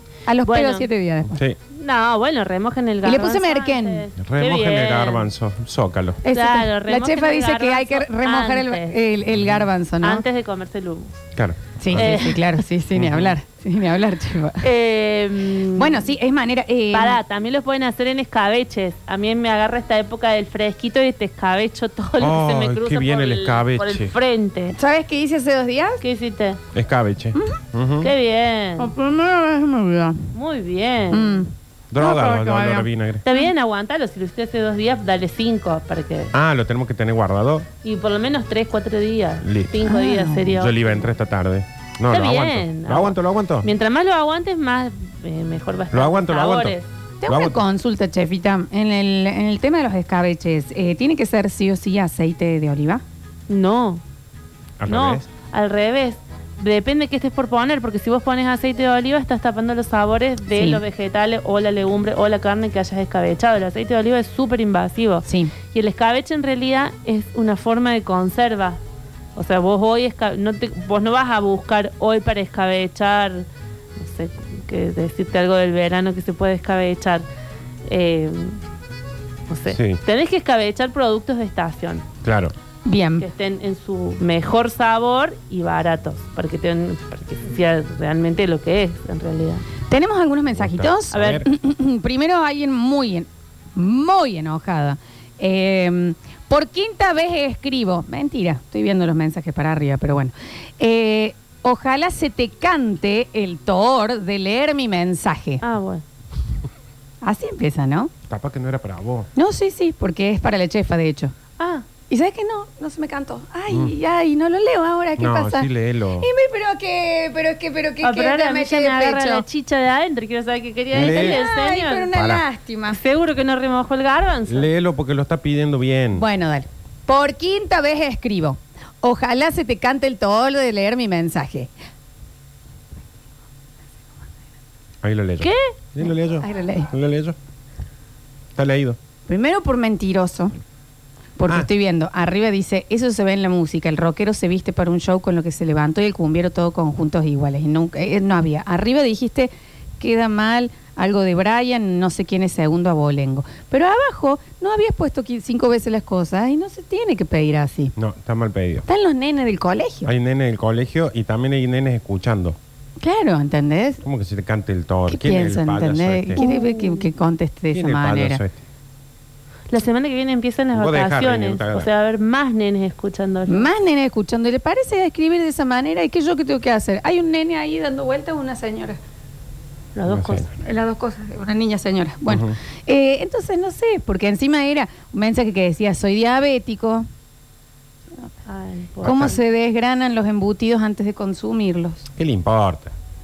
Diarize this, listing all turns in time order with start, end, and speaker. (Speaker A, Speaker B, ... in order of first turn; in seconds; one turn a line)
Speaker A: 0.3-1.4
Speaker B: 0.4-0.9
Speaker C: 1.3-1.6
Speaker B: 1.8-5.3
Speaker A: 3.0-4.0
Speaker C: 4.2-6.2
Speaker A: 6.2-10.2
Speaker B: 6.3-9.0
Speaker C: 9.3-9.7
Speaker B: 10.0-11.2
Speaker C: 11.4-12.2
Speaker A: 11.8-14.6
Speaker B: 12.0-12.4
Speaker C: 12.9-13.4
Speaker B: 14.6-16.1
Speaker A: 15.8-17.2
Speaker B: 16.9-24.8
Speaker C: 22.2-24.1
Speaker A: 24.8-26.0
Speaker B: 26.0-26.6
Speaker C: 26.7-28.1
Speaker B: 28.0-28.9
Speaker A: 28.8-30.2
Speaker B: 30.3-31.4
Speaker A: 31.1-33.5
Speaker C: 31.9-33.2
Speaker B: 33.2-36.3
Speaker C: 36.3-37.7
Speaker B: 37.8-41.1
Speaker C: 39.4-39.9
Speaker A: 39.8-40.5
Speaker C: 40.5-43.7
Speaker B: 42.1-46.9
Speaker C: 45.9-46.8
Speaker A: 47.2-53.0
Speaker C: 47.3-47.6
Speaker B: 53.5-54.0
Speaker C: 54.8-55.3
Speaker B: 54.9-68.8
Speaker A: 60.5-60.8
Speaker A: 65.2-65.5
Speaker B: 69.4-77.2
Speaker B: 77.9-78.6
Speaker B: 79.5-82.0
Speaker C: 79.7-80.0
Speaker C: 82.2-82.5
Speaker A: 82.9-83.3
Speaker B: 83.2-89.6
Speaker A: 89.9-105.6
Speaker C: 90.5-91.5
Speaker B: 91.1-91.5
Speaker B: 105.6-106.0
Speaker A: 107.2-108.1
Speaker C: 108.3-109.3
Speaker A: 109.4-111.3
Speaker B: 111.6-111.8
Speaker A: 112.1-115.7
Speaker C: 115.2-116.3
Speaker A: 116.2-119.4
Speaker B: 118.0-122.1
Speaker C: 120.9-121.4
Speaker A: 121.0-123.0
Speaker C: 122.1-122.4
Speaker B: 122.9-124.7
Speaker C: 124.5-126.2
Speaker A: 126.2-131.7
Speaker C: 135.0-137.4
Speaker B: 135.4-135.7
Speaker A: 136.4-136.9
Speaker C: 138.6-139.0
Speaker A: 139.3-140.5
Speaker A: 141.4-157.9
Speaker C: 158.0-158.8
Speaker A: 158.9-160.1
Speaker C: 160.1-162.6
Speaker A: 163.0-164.0
Speaker C: 164.0-166.4
Speaker A: 165.1-168.4
Speaker B: 166.4-167.1
Speaker C: 167.7-168.6
Speaker B: 169.7-173.7
Speaker C: 170.8-171.9
Speaker A: 173.5-179.0
Speaker B: 179.9-180.5
Speaker C: 180.1-180.5
Speaker A: 180.6-187.1
Speaker C: 182.3-182.6
Speaker B: 188.5-189.4
Speaker A: 189.0-192.1
Speaker C: 189.1-189.3
Speaker C: 192.2-192.9